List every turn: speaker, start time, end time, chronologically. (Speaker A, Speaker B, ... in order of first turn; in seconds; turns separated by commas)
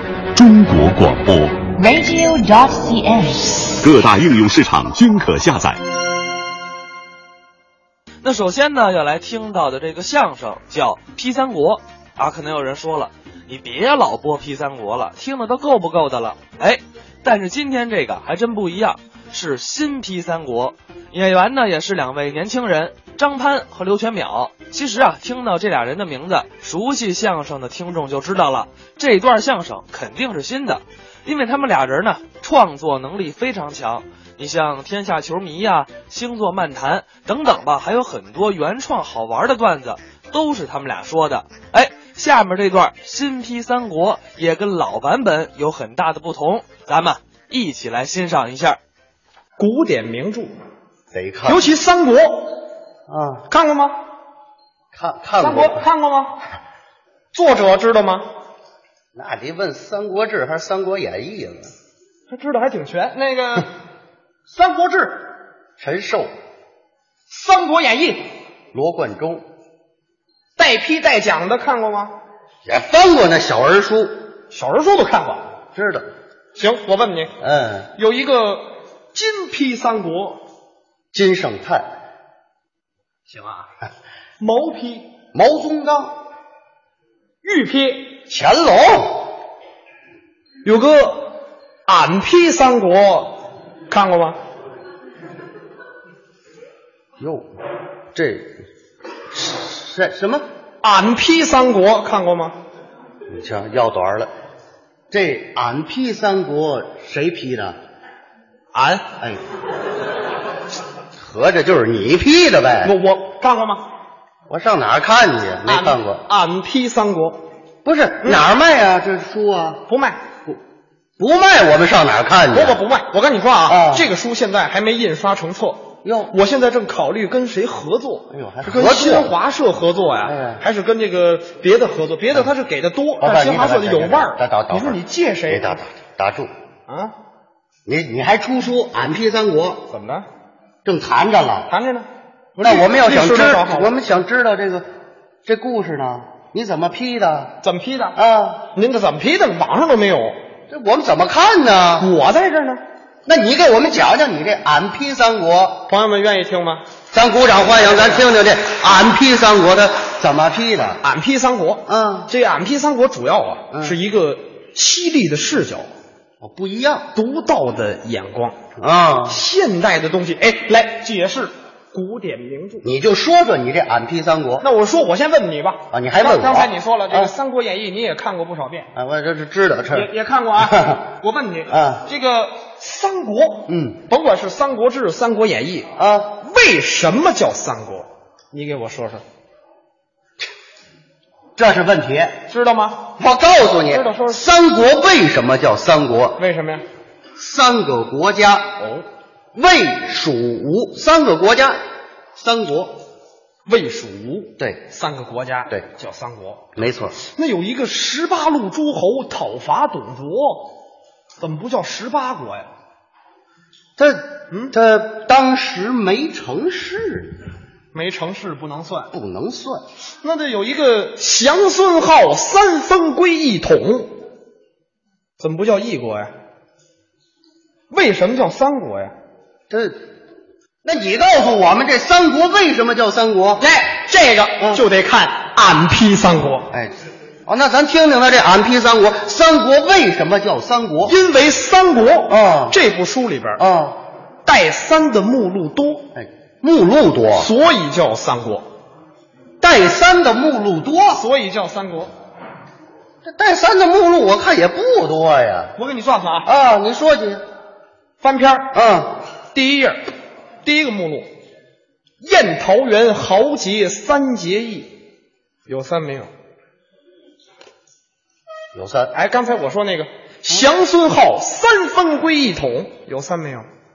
Speaker A: 0.3-1.6, Speaker B: 1.8-3.7, Speaker A: 3.8-5.8, Speaker C: 8.2-48.8, Speaker D: 49.6-50.5, Speaker E: 51.1-51.7, Speaker D: 51.4-52.5, Speaker E: 53.1-53.4, Speaker D: 53.5-53.9, Speaker E: 54.9-55.8, Speaker D: 55.4-56.4, Speaker D: 57.3-58.2, Speaker E: 59.1-61.7, Speaker D: 62.3-63.7, Speaker D: 64.5-65.2, Speaker E: 65.8-66.3, Speaker D: 67.3-68.3, Speaker E: 68.7-69.4, Speaker D: 70.5-72.1, Speaker E: 72.6-74.2, Speaker D: 74.5-75.4, Speaker E: 75.7-76.0, Speaker D: 76.5-77.3, Speaker E: 77.4-77.9, Speaker D: 77.9-80.4, Speaker E: 81.1-81.8, Speaker D: 83.3-83.6, Speaker D: 84.4-85.1, Speaker E: 85.3-86.1, Speaker D: 87.4-88.1, Speaker E: 88.3-89.3, Speaker D: 90.6-94.4, Speaker E: 97.2-97.5, Speaker E: 98.1-98.6, Speaker E: 99.3-100.4, Speaker D: 100.8-102.6, Speaker E: 103.3-104.3, Speaker E: 105.1-107.8, Speaker D: 108.7-109.0, Speaker E: 111.2-112.9, Speaker D: 112.8-113.8, Speaker E: 114.5-116.2, Speaker D: 115.7-117.4, Speaker E: 117.8-119.8, Speaker D: 118.2-118.5, Speaker D: 119.9-120.2, Speaker E: 121.2-122.8, Speaker D: 122.5-135.8, Speaker E: 123.7-124.1, Speaker E: 126.0-126.3, Speaker E: 128.3-129.3, Speaker E: 130.2-130.6, Speaker E: 133.2-136.5, Speaker D: 136.9-137.1, Speaker E: 137.8-139.9, Speaker D: 139.9-140.2, Speaker E: 140.8-141.7, Speaker D: 141.7-143.9, Speaker E: 142.6-144.8, Speaker E: 145.4-147.5, Speaker D: 147.6-148.2, Speaker E: 148.1-148.6, Speaker D: 148.7-150.4, Speaker E: 150.7-152.1, Speaker D: 152.0-152.8, Speaker E: 153.2-155.8, Speaker D: 155.9-156.8, Speaker E: 157.1-161.0, Speaker D: 157.8-158.2, Speaker D: 161.0-165.9, Speaker E: 161.9-162.3, Speaker E: 163.7-164.0, Speaker E: 166.4-167.1, Speaker D: 167.1-168.6, Speaker E: 168.8-169.4, Speaker D: 169.3-172.8, Speaker E: 172.8-174.7, Speaker D: 174.6-178.9, Speaker E: 175.9-177.3, Speaker E: 178.9-181.0, Speaker D: 179.9-189.2, Speaker E: 181.7-182.0, Speaker E: 183.7-184.0, Speaker E: 185.9-186.3, Speaker E: 191.6-192.4, Speaker D: 192.5-193.1, Speaker E: 193.2-196.4, Speaker D: 193.9-194.4, Speaker D: 196.4-196.8, Speaker E: 197.4-198.8, Speaker D: 198.8-199.0, Speaker E: 199.5-201.8, Speaker E: 202.4-203.0, Speaker D: 203.7-206.7, Speaker E: 206.8-207.2, Speaker D: 207.2-210.7, Speaker D: 211.4-212.7, Speaker E: 214.0-217.4, Speaker D: 217.9-219.1, Speaker E: 219.1-219.8, Speaker D: 220.2-224.2, Speaker D: 225.4-226.3, Speaker D: 227.9-229.1, Speaker E: 229.7-230.0, Speaker E: 230.8-233.6, Speaker D: 233.6-236.7, Speaker E: 234.6-234.8, Speaker E: 237.4-241.1, Speaker D: 241.0-243.6, Speaker E: 242.3-242.8, Speaker E: 243.6-244.0, Speaker D: 244.4-246.1, Speaker E: 246.1-247.5, Speaker D: 247.3-248.7, Speaker E: 249.6-251.2, Speaker D: 251.1-252.1, Speaker E: 253.2-255.7, Speaker D: 255.8-256.5, Speaker E: 256.4-257.4, Speaker D: 258.2-258.7, Speaker E: 258.7-259.1, Speaker D: 259.5-260.0, Speaker D: 260.6-261.3, Speaker D: 262.2-264.9, Speaker D: 265.7-266.3, Speaker E: 268.7-269.1, Speaker D: 269.1-273.7